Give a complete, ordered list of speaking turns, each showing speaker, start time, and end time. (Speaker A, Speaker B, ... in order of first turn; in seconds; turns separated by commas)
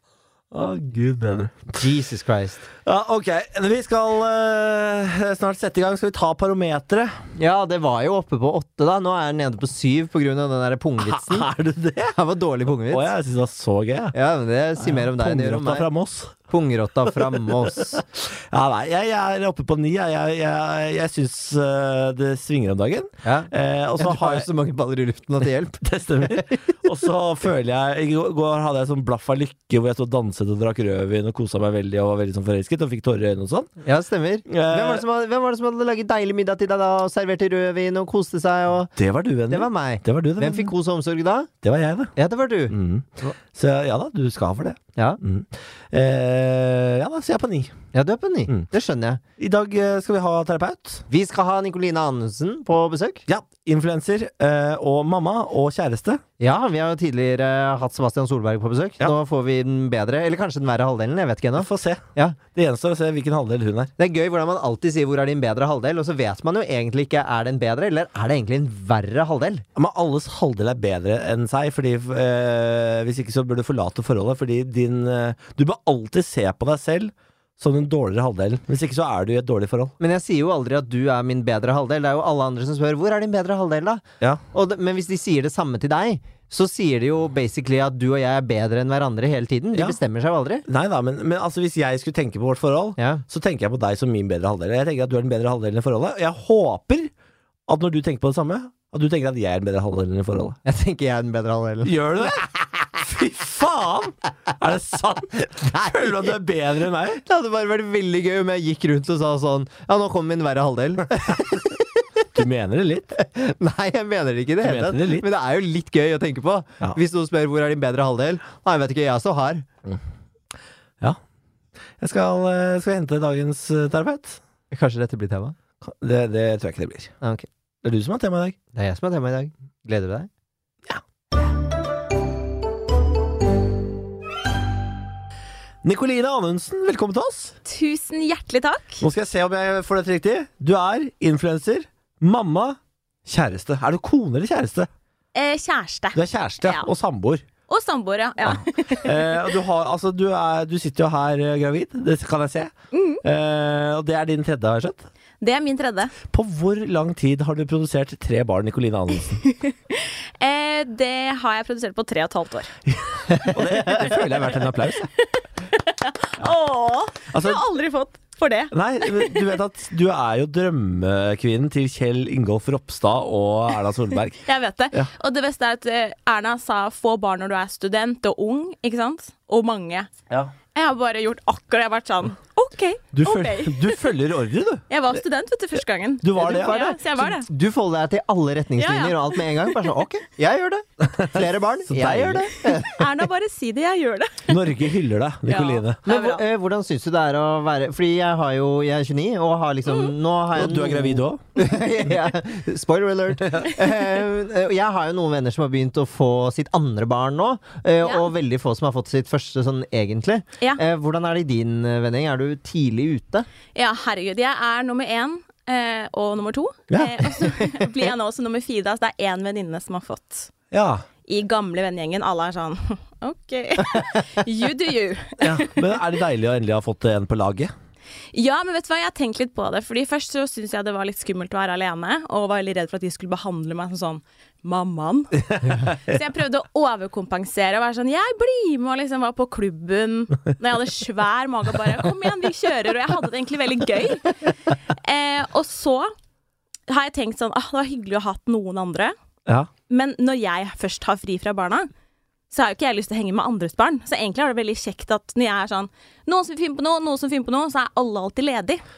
Speaker A: 0.5-1.8, Speaker B: 1.8-2.7, Speaker A: 2.9-7.2, Speaker B: 7.4-11.5, Speaker A: 11.0-12.2, Speaker B: 12.1-13.1, Speaker A: 12.9-14.2, Speaker B: 14.1-15.9, Speaker A: 14.8-16.4, Speaker B: 16.5-18.0, Speaker A: 17.1-24.5, Speaker B: 23.2-26.6, Speaker A: 25.8-33.7, Speaker B: 33.8-38.9, Speaker A: 34.5-35.0, Speaker A: 39.0-40.7, Speaker B: 39.5-41.5, Speaker A: 41.6-42.1, Speaker B: 42.2-43.3, Speaker A: 42.7-47.8, Speaker B: 47.9-49.2, Speaker A: 49.4-51.0, Speaker B: 51.1-53.2, Speaker A: 53.3-56.2, Speaker B: 56.4-62.4, Speaker A: 61.6-63.9, Speaker B: 64.0-69.7, Speaker A: 69.8-80.0, Speaker B: 80.0-90.7, Speaker A: 90.7-97.1, Speaker B: 93.0-93.2, Speaker A: 97.7-100.6, Speaker B: 100.7-102.4, Speaker A: 101.8-102.5, Speaker A: 103.0-107.2, Speaker B: 105.6-106.3, Speaker B: 107.2-112.0, Speaker A: 112.3-113.1, Speaker B: 113.2-119.7, Speaker A: 114.6-115.2, Speaker A: 122.0-124.4, Speaker B: 124.7-125.5, Speaker A: 125.8-127.1, Speaker B: 127.2-127.5, Speaker A: 127.8-128.6, Speaker B: 128.7-130.3, Speaker A: 135.8-137.6, Speaker C: 137.7-139.0, Speaker A: 139.0-144.9, Speaker C: 145.3-146.9, Speaker A: 146.2-147.4, Speaker C: 147.7-149.6, Speaker A: 148.4-155.1, Speaker C: 152.9-153.2, Speaker C: 155.4-156.2, Speaker A: 156.3-159.4, Speaker C: 159.4-162.7, Speaker A: 162.9-165.1, Speaker C: 165.2-169.5, Speaker A: 167.3-167.6, Speaker A: 168.7-175.1, Speaker C: 174.4-180.1, Speaker C: 180.7-184.1, Speaker A: 183.1-184.9, Speaker C: 184.9-187.5, Speaker A: 186.2-187.0, Speaker B: 186.4-193.1, Speaker C: 188.8-190.0, Speaker A: 191.0-192.6, Speaker C: 192.8-194.8, Speaker A: 194.5-196.0, Speaker C: 195.5-196.4, Speaker B: 196.1-213.5, Speaker A: 200.5-201.4, Speaker A: 203.5-203.7, Speaker C: 213.8-220.5, Speaker A: 216.9-217.5, Speaker A: 220.7-221.1, Speaker C: 221.3-226.0, Speaker A: 225.4-227.7, Speaker C: 228.3-246.1, Speaker C: 246.9-249.1, Speaker C: 249.9-251.9, Speaker C: 252.5-258.8